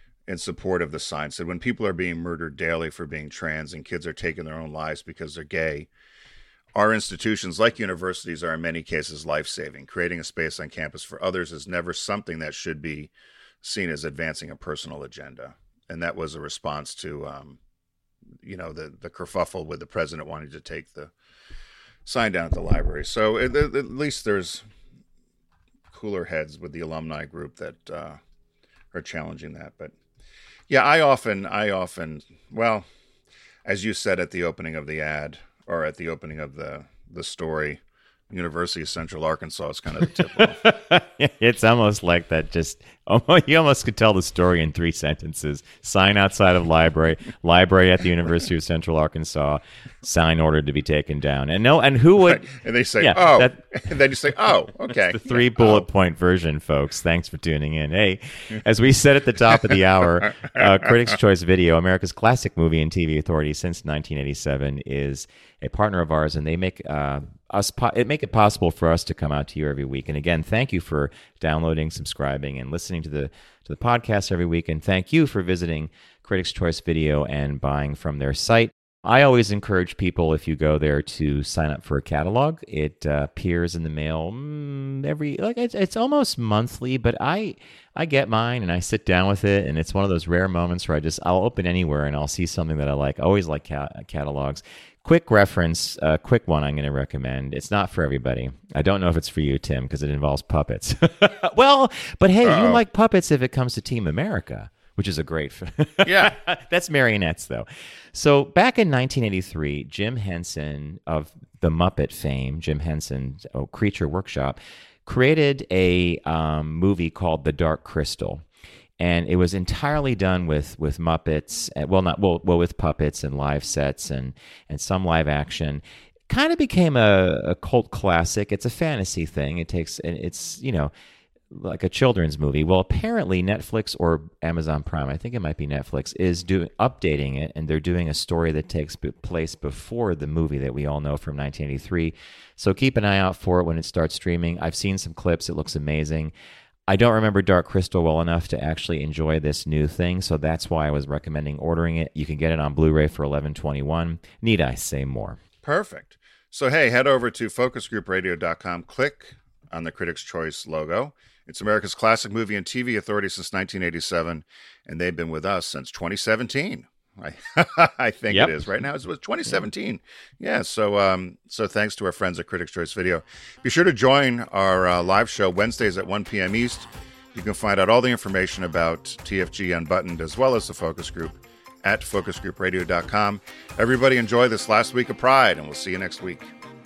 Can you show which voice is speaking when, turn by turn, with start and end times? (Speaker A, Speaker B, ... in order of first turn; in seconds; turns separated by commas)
Speaker A: 0.3-5.9, Speaker A: 6.8-17.6, Speaker A: 18.4-21.1, Speaker A: 22.1-24.6, Speaker A: 25.9-28.2, Speaker A: 28.9-29.9, Speaker A: 30.7-32.9, Speaker A: 33.7-40.7, Speaker B: 40.4-52.5, Speaker A: 52.2-55.9, Speaker B: 53.0-53.6, Speaker B: 55.0-118.4, Speaker A: 102.4-102.8, Speaker A: 106.0-106.3, Speaker B: 119.0-130.9, Speaker B: 131.5-146.3, Speaker B: 146.9-155.4, Speaker A: 155.6-186.5, Speaker B: 168.3-168.7